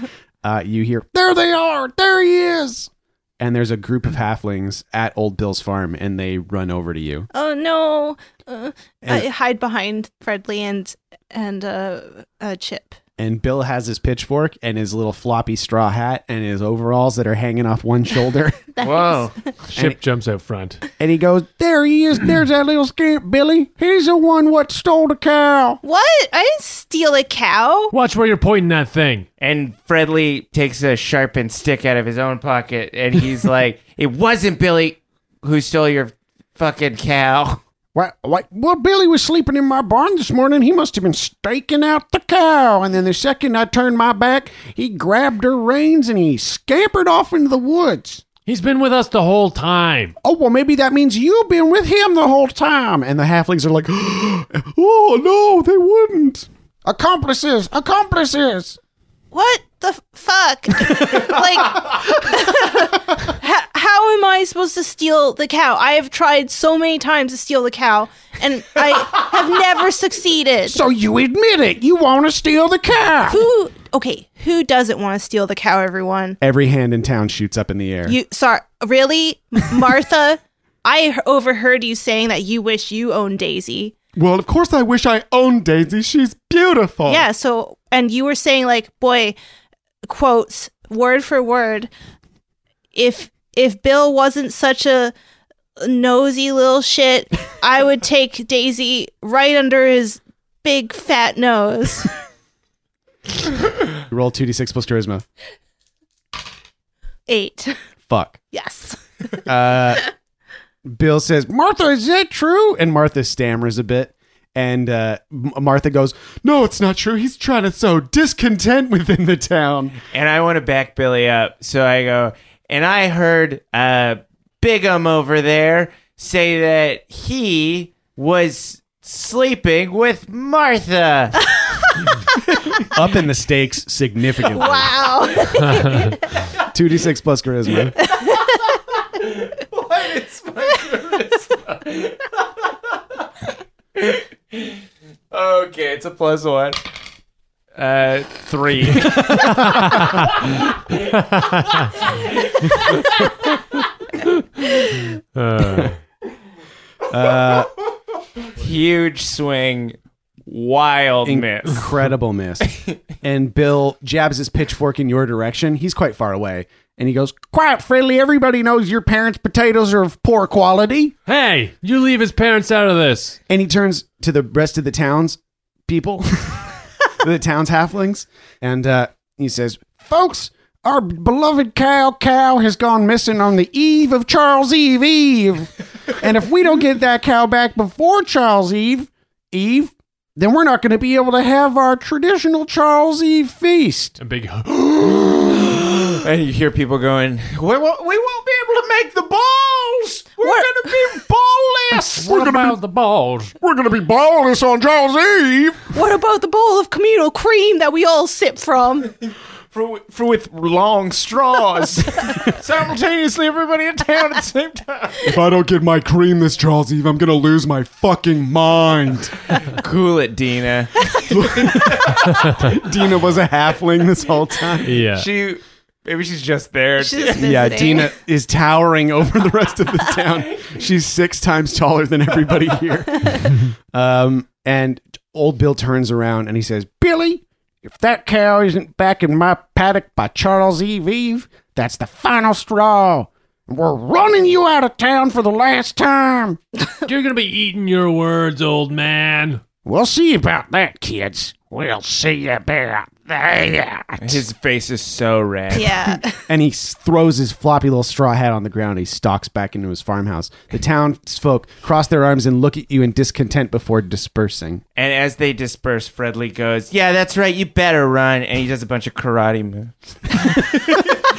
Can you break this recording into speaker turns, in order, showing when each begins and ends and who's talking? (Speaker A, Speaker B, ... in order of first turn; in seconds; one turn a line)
Speaker A: 0.4-7.3
Speaker B: 7.3-13.0
Speaker A: 13.2-18.7
Speaker B: 18.8-19.5
Speaker C: 18.8-19.4
Speaker D: 19.7-20.8
Speaker A: 21.0-25.8
Speaker B: 25.8-27.9
Speaker D: 27.9-29.3
Speaker C: 29.4-37.6
Speaker A: 38.0-48.2
Speaker D: 48.5-50.1
Speaker A: 50.2-58.8
Speaker B: 59.3-70.8
Speaker A: 70.7-73.4
Speaker B: 73.3-76.4
Speaker A: 76.4-78.2
Speaker B: 78.1-83.9
Speaker A: 84.2-87.3
Speaker B: 87.1-89.4
Speaker B: 90.1-91.9
Speaker B: 92.9-95.1
Speaker B: 95.8-102.1
Speaker A: 104.1-105.2
Speaker B: 107.3-107.7
Speaker A: 108.1-108.4
Speaker B: 108.5-109.0
Speaker A: 109.4-110.1
Speaker A: 110.9-120.0
Speaker C: 120.1-131.4
Speaker B: 131.6-132.0
Speaker A: 132.9-135.0
Speaker B: 134.5-136.4
Speaker A: 136.6-138.0
Speaker C: 138.2-142.6
Speaker C: 144.0-144.8
Speaker C: 145.3-146.9
Speaker C: 147.8-150.9
Speaker D: 149.1-150.3
Speaker D: 151.0-151.9
Speaker C: 152.4-153.3
Speaker D: 155.3-156.0
Speaker A: 157.1-157.7
Speaker C: 158.6-161.9
Speaker A: 161.2-171.1
Speaker D: 171.3-173.4
Speaker A: 173.5-176.7
Speaker A: 177.2-194.2
Speaker D: 194.2-196.2
Speaker C: 196.2-200.3
Speaker A: 199.4-202.8
Speaker B: 200.4-201.1
Speaker D: 202.0-203.6
Speaker A: 203.6-205.9
Speaker B: 205.9-209.1
Speaker C: 209.7-215.3
Speaker A: 215.2-219.5
Speaker C: 219.7-222.2
Speaker A: 221.2-225.0
Speaker D: 224.8-225.3
Speaker C: 225.0-227.5
Speaker B: 227.0-228.1
Speaker A: 227.3-246.6
Speaker D: 247.1-249.6
Speaker A: 249.8-254.4
Speaker C: 254.2-256.1
Speaker B: 255.7-256.4
Speaker A: 256.3-264.8
Speaker C: 265.0-271.2